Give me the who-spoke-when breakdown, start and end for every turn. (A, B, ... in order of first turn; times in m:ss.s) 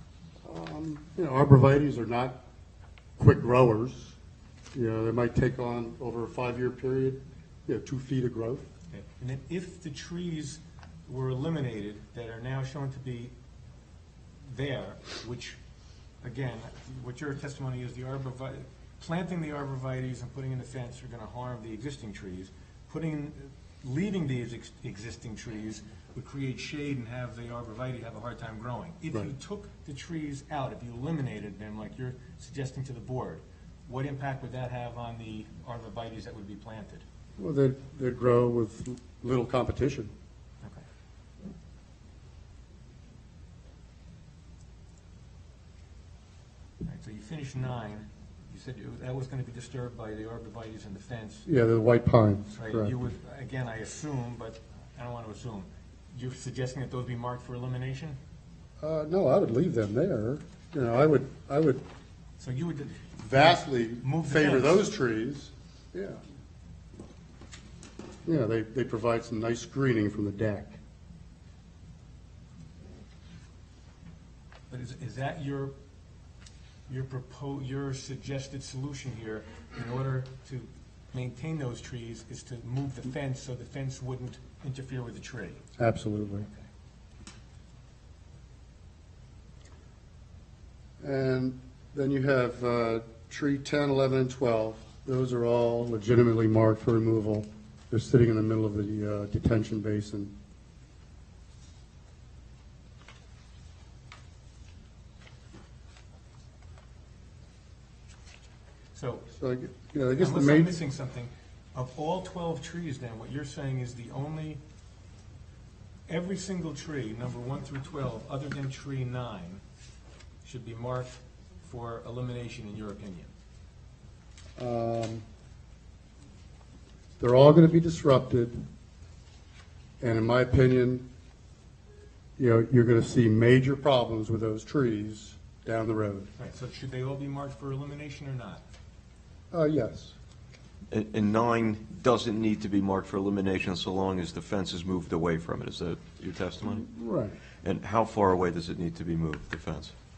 0:00.4-0:02.4 A
0:03.2-0:04.2 A
0:04.7-0:08.7 A
0:08.9-0:13.3 B
0:14.5-0:15.6 B
0:16.2-0:37.0 B
0:37.4-0:40.1 A
0:46.8-0:51.5 B
0:51.5-0:53.0 A
0:52.5-0:58.2 B
0:58.8-1:01.8 A
1:02.4-1:04.8 B
1:03.2-1:06.2 A
1:08.2-1:10.8 A
1:14.7-1:15.7 B
1:16.9-1:25.6 B
1:25.8-1:26.5 A
1:31.0-1:40.3 A
1:48.9-1:49.2 B
1:49.3-1:50.8 A
1:50.2-1:54.6 B
1:56.1-1:59.6 B
2:00.4-2:03.3 B
2:04.6-2:05.2 A
2:07.2-2:08.6 A
2:10.0-2:11.0 A
2:12.4-2:16.3 A
2:16.4-2:18.6 B
2:19.5-2:20.1 A
2:20.9-2:26.8 C
2:26.6-2:27.4 A
2:27.6-2:29.9 C